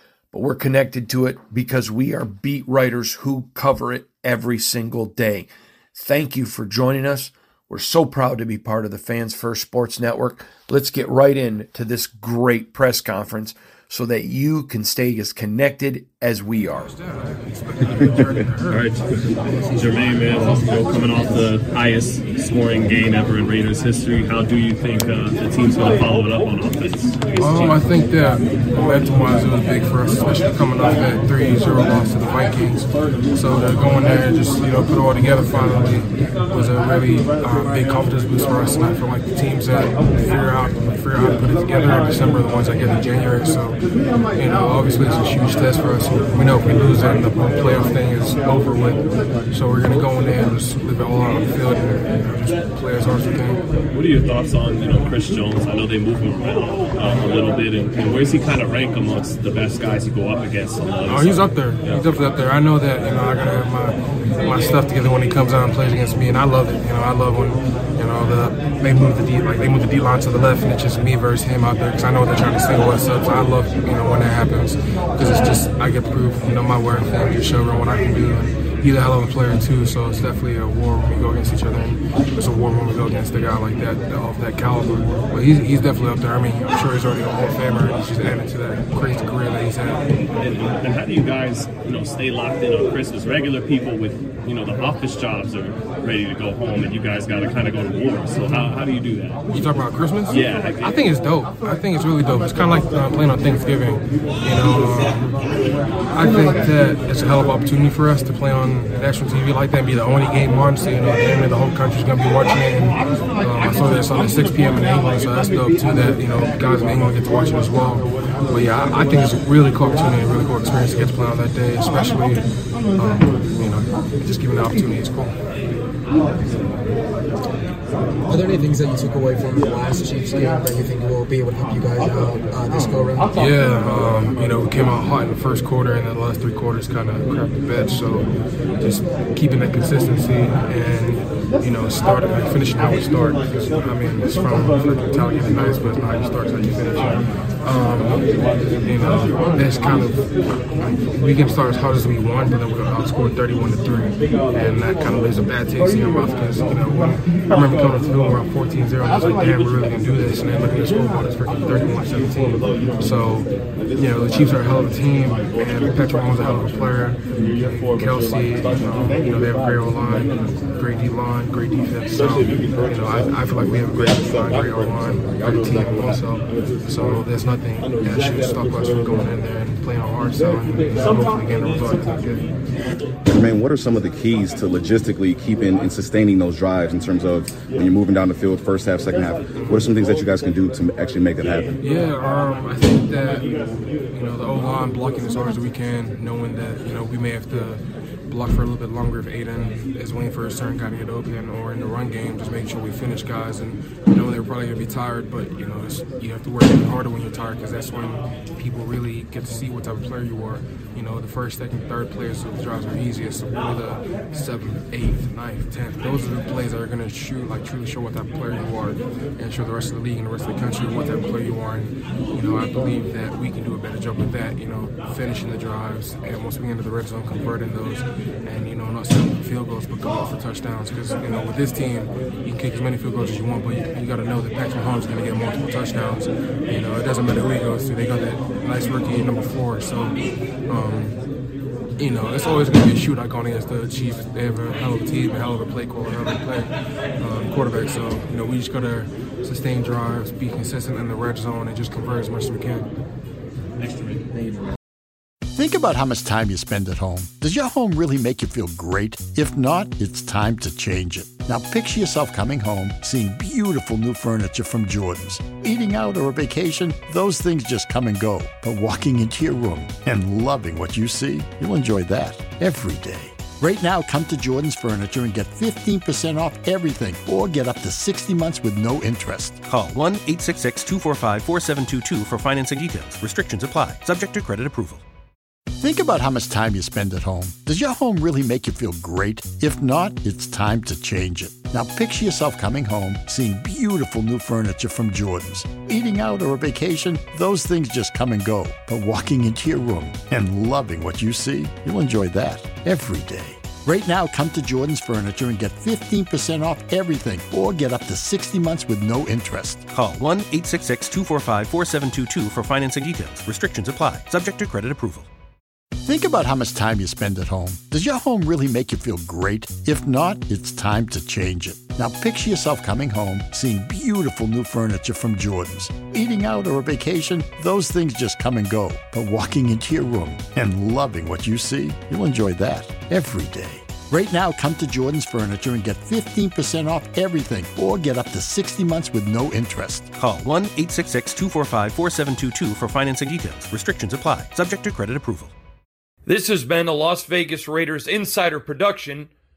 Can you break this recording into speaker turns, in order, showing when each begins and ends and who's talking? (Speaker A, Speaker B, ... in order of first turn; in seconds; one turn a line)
Speaker A: 0.3-16.9
Speaker B: 16.8-18.9
Speaker C: 18.7-19.0
Speaker B: 19.6-21.0
Speaker C: 19.6-27.9
Speaker B: 27.4-43.8
Speaker B: 44.3-53.6
Speaker C: 53.9-62.0
Speaker B: 61.0-90.1
Speaker C: 90.4-99.4
Speaker B: 99.5-105.4
Speaker C: 100.3-101.1
Speaker B: 106.1-125.3
Speaker D: 128.3-133.3
Speaker B: 133.3-150.2
Speaker B: 150.8-182.5
Speaker E: 183.2-191.8
Speaker B: 189.6-189.9
Speaker B: 191.8-241.2
Speaker B: 242.0-252.9
Speaker C: 253.8-254.3
Speaker F: 255.5-279.6
Speaker G: 279.6-285.0
Speaker F: 285.8-309.9
Speaker G: 309.9-315.3
Speaker F: 316.0-340.1
Speaker G: 340.1-345.5
Speaker A: 346.2-349.3